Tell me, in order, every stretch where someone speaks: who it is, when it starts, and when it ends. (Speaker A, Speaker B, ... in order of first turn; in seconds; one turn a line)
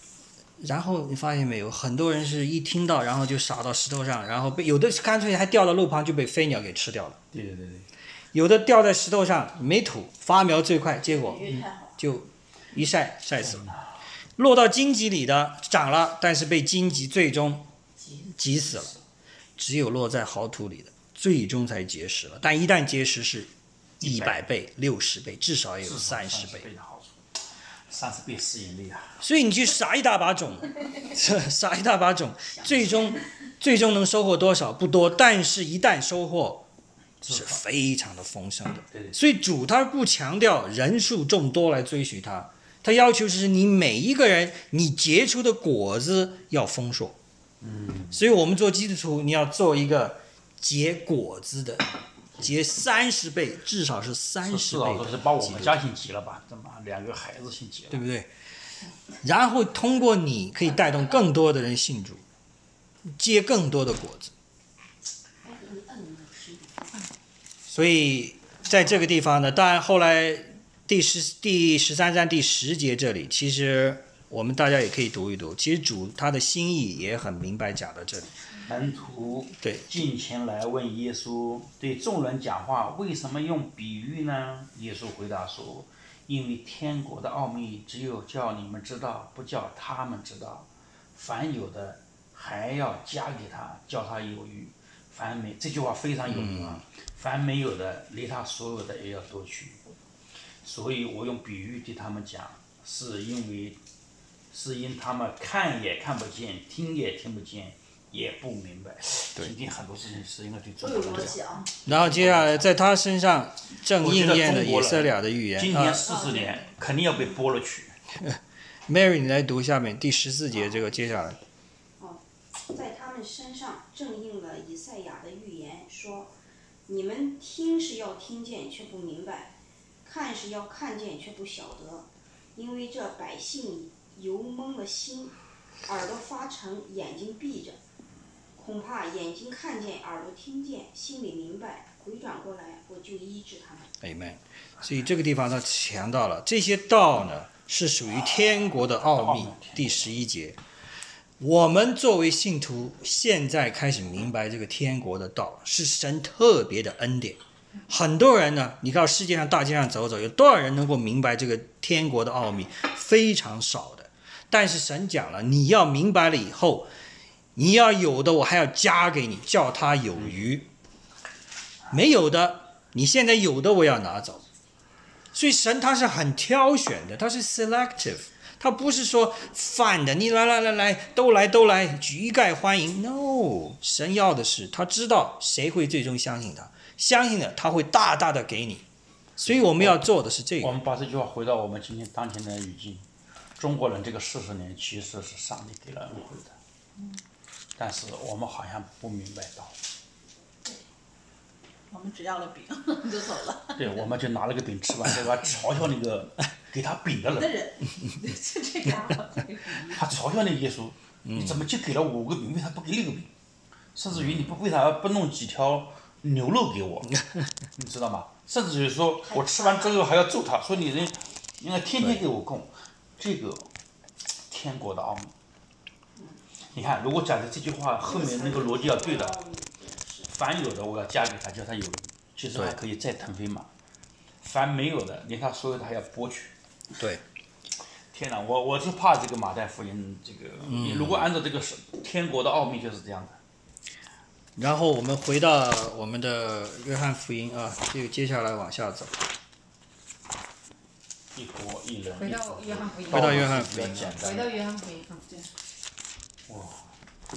Speaker A: 0.6-7.2
Speaker B: 7.3-7.9
Speaker A: 8.3-13.7
Speaker C: 11.1-12.0
Speaker B: 13.4-13.9
Speaker A: 14.4-17.7
Speaker D: 18.0-18.3
Speaker A: 18.4-19.0
Speaker A: 19.6-23.5
Speaker B: 24.0-24.4
Speaker A: 24.0-26.7
Speaker B: 25.8-27.2
Speaker B: 27.9-29.2
Speaker A: 29.2-36.6
Speaker B: 37.2-37.6
Speaker A: 37.2-47.2
Speaker B: 38.9-39.2
Speaker B: 47.6-48.2
Speaker A: 48.1-51.9
Speaker A: 52.4-55.8
Speaker B: 54.4-58.0
Speaker A: 57.9-58.3
Speaker A: 59.2-62.2
Speaker A: 63.2-64.3
Speaker C: 65.4-67.0
Speaker A: 67.7-78.3
Speaker B: 78.7-99.8
Speaker A: 79.6-79.9
Speaker A: 96.3-96.8
Speaker B: 100.6-103.8
Speaker B: 104.5-112.7
Speaker C: 110.8-111.7
Speaker A: 111.9-116.1
Speaker B: 113.9-118.0
Speaker D: 116.2-116.7
Speaker A: 118.2-121.4
Speaker C: 122.0-126.3
Speaker C: 126.9-129.5
Speaker C: 130.0-137.8
Speaker C: 138.6-143.9
Speaker A: 144.0-150.6
Speaker B: 149.0-150.1
Speaker A: 151.4-166.9
Speaker A: 167.6-170.7
Speaker A: 171.9-174.4
Speaker A: 175.3-188.8
Speaker A: 189.4-190.8
Speaker B: 189.5-190.1
Speaker B: 190.6-193.1
Speaker B: 193.6-196.5
Speaker B: 197.8-199.8
Speaker E: 201.9-203.9
Speaker B: 203.8-207.5
Speaker E: 207.4-210.1
Speaker B: 209.9-213.3
Speaker A: 211.2-211.6
Speaker B: 213.9-217.2
Speaker B: 217.8-223.7
Speaker C: 219.2-220.0
Speaker B: 224.5-225.3
Speaker C: 226.2-226.4
Speaker B: 226.7-229.4
Speaker C: 228.0-230.3
Speaker B: 230.3-233.7
Speaker B: 234.4-236.5
Speaker B: 238.1-243.4
Speaker A: 240.7-241.3
Speaker A: 244.6-249.2
Speaker B: 251.3-254.5
Speaker D: 252.2-253.6
Speaker A: 253.1-254.2
Speaker D: 254.2-255.3
Speaker B: 256.5-256.9